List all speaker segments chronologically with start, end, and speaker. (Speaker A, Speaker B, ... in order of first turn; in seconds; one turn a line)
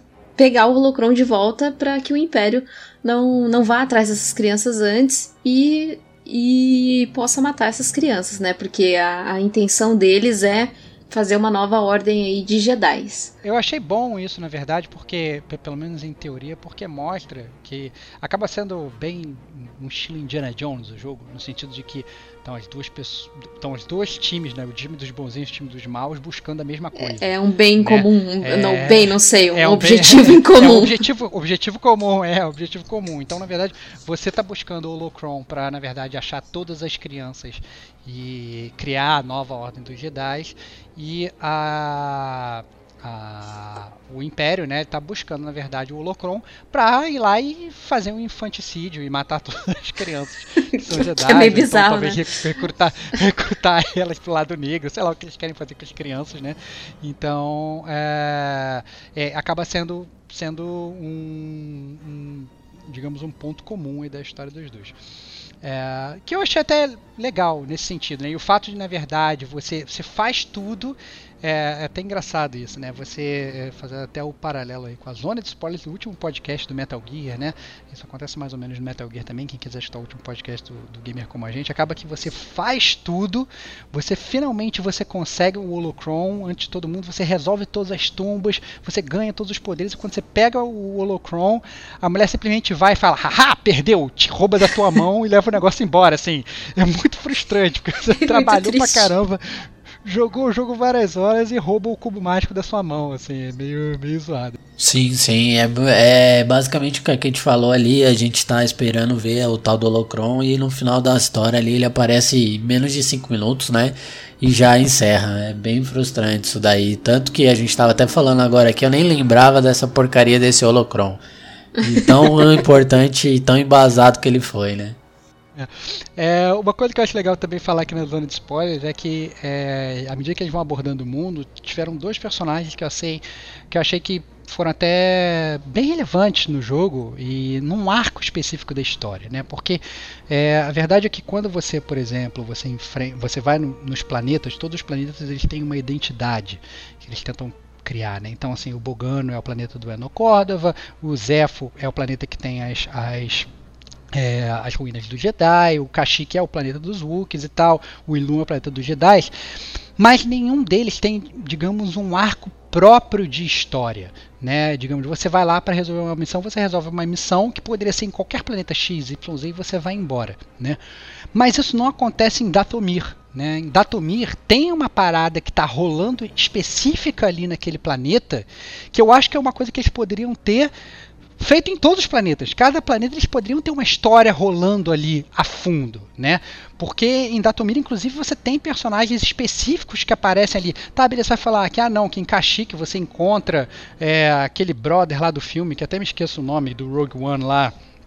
Speaker A: 0.4-13.3
Speaker B: 13.4-64.9
Speaker A: 27.0-31.1
Speaker A: 50.7-52.2
Speaker B: 65.6-104.6
Speaker A: 98.2-99.1
Speaker C: 104.8-121.2
Speaker A: 121.8-122.5
Speaker C: 121.8-125.0
Speaker B: 125.6-153.5
Speaker B: 154.1-159.3
Speaker B: 160.0-170.8
Speaker B: 171.3-180.7
Speaker B: 181.4-197.7